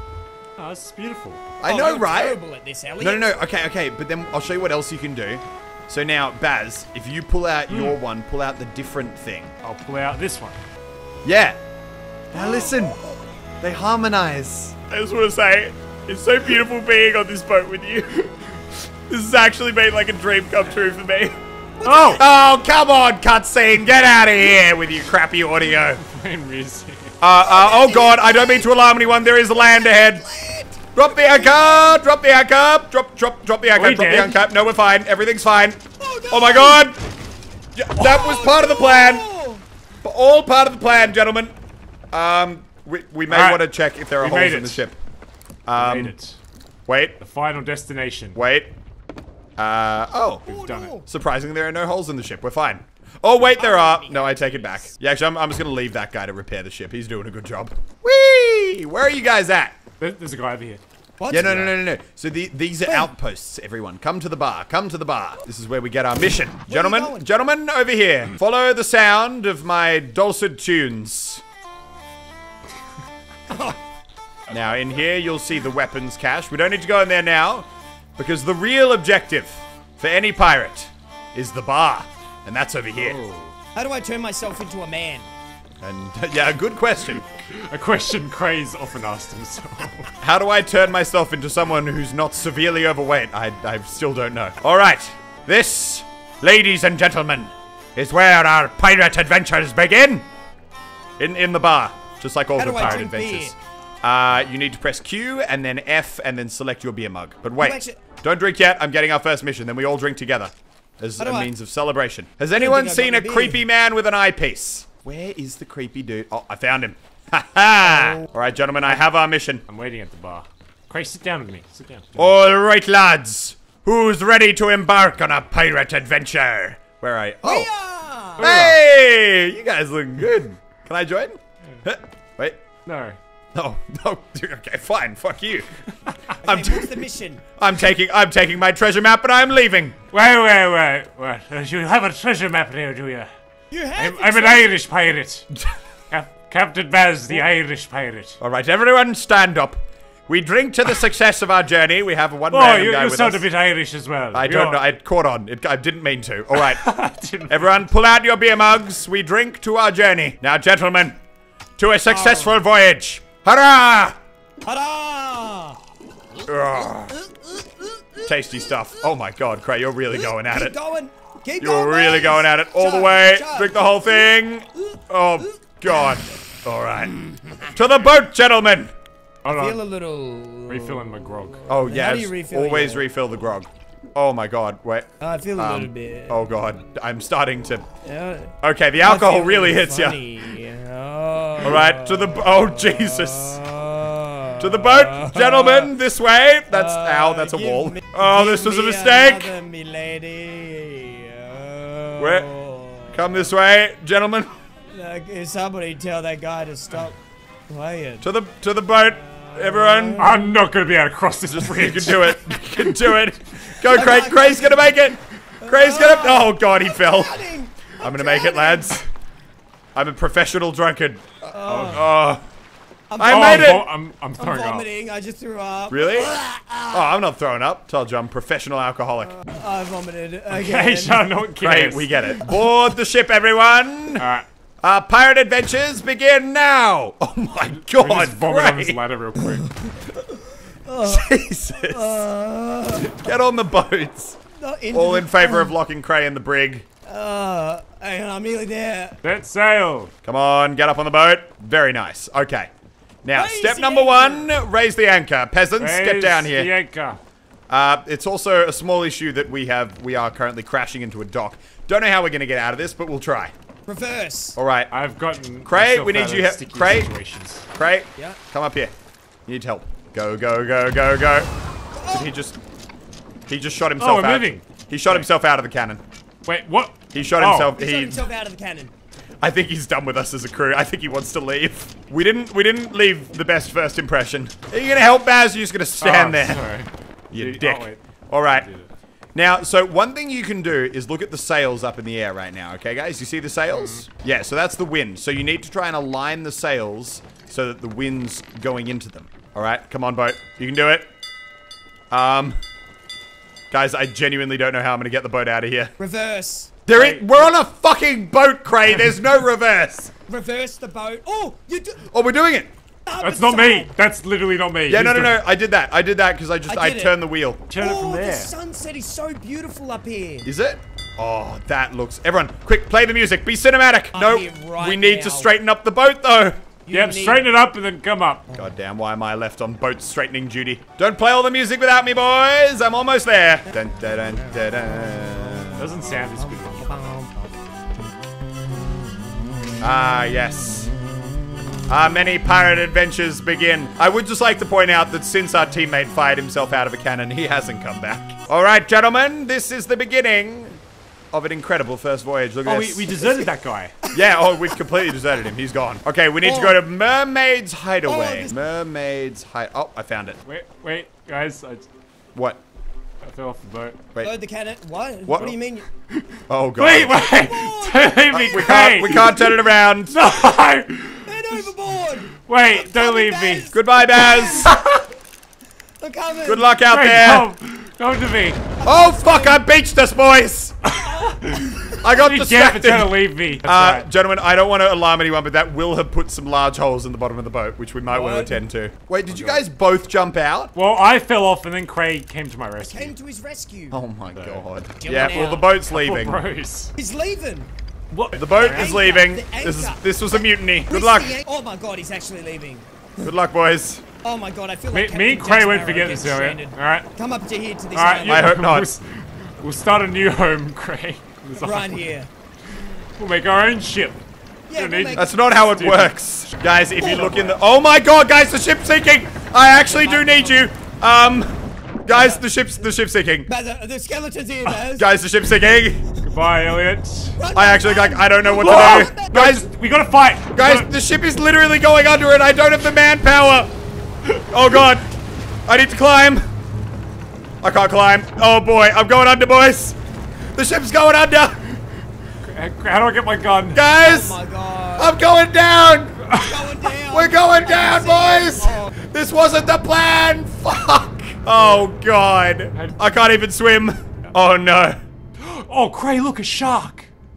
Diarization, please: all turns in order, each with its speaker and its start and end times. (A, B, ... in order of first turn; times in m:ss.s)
0:00.6-0:01.4 A
0:01.6-0:02.4 B
0:01.6-0:03.3 C
0:03.0-0:09.5 B
0:07.7-0:08.0 A
0:09.6-0:10.6 A
0:11.2-0:11.6 B
0:12.3-0:13.0 B
0:12.4-0:13.2 C
0:13.6-0:18.3 B
0:19.1-0:21.4 B
0:21.8-0:22.2 C
0:21.8-0:22.2 A
0:22.1-0:26.0 B
0:26.0-0:27.2 A
0:27.2-0:30.2 B
0:27.4-0:28.7 C
0:29.5-0:32.0 C
0:31.0-0:37.0 B
0:33.8-0:34.4 A
0:36.0-0:36.9 C
0:37.8-0:39.3 B
0:38.0-0:39.6 C
0:40.0-0:41.5 B
0:42.1-0:45.0 B
0:43.3-0:43.6 A
0:44.2-0:44.8 A
0:45.7-0:46.1 B
0:45.8-0:46.4 A
0:46.9-0:47.2 B
0:47.2-0:48.4 A
0:48.4-0:48.7 B
0:49.6-0:50.5 B
0:50.5-0:50.9 A
0:50.5-0:51.1 C
0:51.0-0:59.8 B
0:53.5-0:54.9 C
1:00.0-1:00.8 A
1:01.2-1:01.7 C
1:01.3-1:11.4 B
1:01.3-1:01.7 A
1:06.7-1:07.2 C
1:13.5-1:13.8 C
1:14.5-1:23.2 B
1:23.0-1:23.6 A
1:23.8-1:25.3 C
1:25.8-1:27.2 B
1:27.5-1:30.1 A
1:30.2-1:40.2 B
1:41.2-1:59.6 B
1:42.6-1:43.6 C
1:47.6-1:48.0 C
1:51.2-1:51.5 C
1:52.5-1:53.6 C
1:57.9-1:58.2 C
1:59.7-2:02.3 A
2:02.2-2:07.7 B
2:07.4-2:08.5 C
2:08.4-2:08.8 A
2:08.4-2:12.6 B
2:12.9-2:13.2 A
2:13.5-2:15.8 B
2:16.4-2:17.4 C
2:16.4-2:16.9 B
2:17.6-2:20.0 B
2:20.1-2:23.3 A
2:23.7-2:24.7 C
2:24.0-2:25.5 A
2:26.1-2:28.4 A
2:28.4-2:33.4 B
2:32.5-2:34.9 A
2:34.3-2:36.8 B
2:36.5-2:37.7 A
2:37.5-2:41.2 B
2:41.8-2:44.2 B
2:42.1-2:42.6 C
2:44.6-2:45.8 C
2:46.5-2:47.2 B
2:48.2-2:50.8 B
2:50.1-2:54.3 C
2:51.6-2:58.9 B
2:57.3-2:57.7 C
2:59.4-2:59.8 A
2:59.5-3:01.1 C
3:00.7-3:01.7 A
3:01.7-3:07.8 B
3:01.7-3:03.1 C
3:05.2-3:06.4 C
3:08.0-3:15.9 C
3:08.6-3:10.2 B
3:11.6-3:13.6 B
3:14.6-3:19.5 B
3:16.7-3:23.4 C
3:22.2-3:22.5 B
3:23.1-3:24.5 B
3:24.9-3:28.3 C
3:28.2-3:30.3 B
3:29.1-3:30.5 C
3:30.2-3:32.4 A
3:31.5-3:37.4 B
3:33.8-3:34.8 C
3:35.6-3:39.0 C
3:38.0-3:39.1 B
3:40.0-3:42.4 B
3:41.4-3:42.1 C
3:41.7-3:42.1 A
3:43.1-3:47.1 C
3:43.2-3:43.9 B
3:43.2-3:44.9 A
3:45.9-3:46.4 B
3:46.9-3:49.4 B
3:49.3-3:51.3 C
3:50.5-3:52.1 A
3:51.6-3:54.3 B
3:54.2-3:54.5 A
3:54.8-3:59.0 B
3:57.8-3:59.7 A
3:59.4-4:00.1 C
4:00.8-4:03.3 C
4:01.0-4:02.2 B
4:03.0-4:04.4 B
4:04.6-4:05.7 C
4:04.9-4:06.9 B
4:07.1-4:09.2 C
4:09.2-4:10.1 A
4:10.2-4:12.7 B
4:13.2-4:16.7 B
4:13.3-4:14.5 C
4:15.8-4:17.2 A
4:17.7-4:23.5 B
4:23.9-4:24.6 C
4:24.6-4:24.9 B
4:24.9-4:27.7 A
4:25.7-4:27.1 B
4:27.8-4:28.9 B
4:29.5-4:31.5 B
4:31.9-4:32.3 C
4:32.1-4:32.6 B
4:33.5-4:36.0 B
4:34.0-4:35.3 A
4:36.5-4:37.8 A
4:37.1-4:38.3 B
4:37.8-4:38.9 C
4:39.4-4:46.6 B
4:46.0-4:48.9 A
4:47.3-4:48.7 B
4:49.4-5:01.1 B
4:53.7-4:54.0 A
5:02.1-5:02.6 B
5:03.7-5:05.9 B
5:06.0-5:06.8 C
5:06.9-5:10.1 B
5:06.9-5:07.5 A
5:10.3-5:12.1 C
5:12.1-5:12.7 B
5:13.1-5:13.9 C
5:13.2-5:15.4 A
5:14.9-5:17.6 B
5:16.7-5:17.2 C
5:17.7-5:18.5 A
5:17.8-5:20.5 C
5:20.4-5:26.6 B
5:24.1-5:25.5 C
5:26.8-5:27.5 C
5:26.9-5:28.4 A
5:28.6-5:36.0 B
5:35.8-5:36.9 A
5:36.4-5:37.5 C
5:39.8-5:40.9 B
5:41.9-5:50.8 B
5:51.3-5:53.5 B
5:52.6-5:54.0 A
5:54.1-5:54.8 C
5:54.1-6:00.4 B
5:56.4-5:56.8 C
5:58.0-5:58.6 C
6:00.5-6:01.9 A
6:02.4-6:02.6 B
6:03.2-6:04.0 A
6:04.2-6:05.9 C
6:05.3-6:05.5 B
6:06.2-6:11.7 A
6:06.5-6:07.3 B
6:07.1-6:09.0 C
6:08.3-6:10.2 B
6:11.2-6:14.7 C
6:12.4-6:13.7 A
6:13.7-6:14.8 B
6:14.6-6:15.0 A
6:16.0-6:16.7 C
6:16.4-6:17.5 B
6:16.9-6:18.6 A
6:18.8-6:19.6 C
6:18.8-6:20.8 B
6:20.9-6:24.1 A
6:21.0-6:22.0 C
6:22.0-6:30.7 B
6:28.1-6:28.6 C
6:29.3-6:29.6 A
6:30.8-6:33.1 A
6:32.8-6:34.0 C
6:33.9-6:36.4 B
6:34.3-6:34.6 A
6:35.0-6:35.7 C
6:35.3-6:36.9 A
6:37.0-6:37.7 C
6:38.1-6:39.0 A
6:38.3-6:41.4 B
6:38.5-6:43.3 C
6:43.2-6:44.0 B
6:44.2-6:48.6 C
6:44.9-6:47.1 A
6:48.0-6:52.1 A
6:48.3-6:48.9 B
6:51.6-6:52.3 C
6:53.2-6:54.2 A
6:54.7-6:55.3 C
6:54.8-6:56.1 A
6:55.2-7:03.5 B
6:56.9-6:57.6 A
6:59.8-7:00.6 C
7:02.1-7:02.4 C
7:03.5-7:05.1 C
7:04.8-7:06.0 B
7:06.2-7:07.4 A
7:07.4-7:09.6 C
7:07.5-7:09.7 B
7:08.5-7:10.9 A
7:10.5-7:13.7 B
7:14.5-7:15.1 B
7:15.7-7:16.4 B
7:17.6-7:20.0 B
7:20.5-7:21.7 B
7:22.4-7:23.8 A
7:23.7-7:24.4 B
7:23.9-7:25.2 C
7:25.0-7:26.2 B
7:26.3-7:26.8 A
7:26.3-7:29.0 C
7:27.1-7:35.0 B
7:35.4-7:37.1 A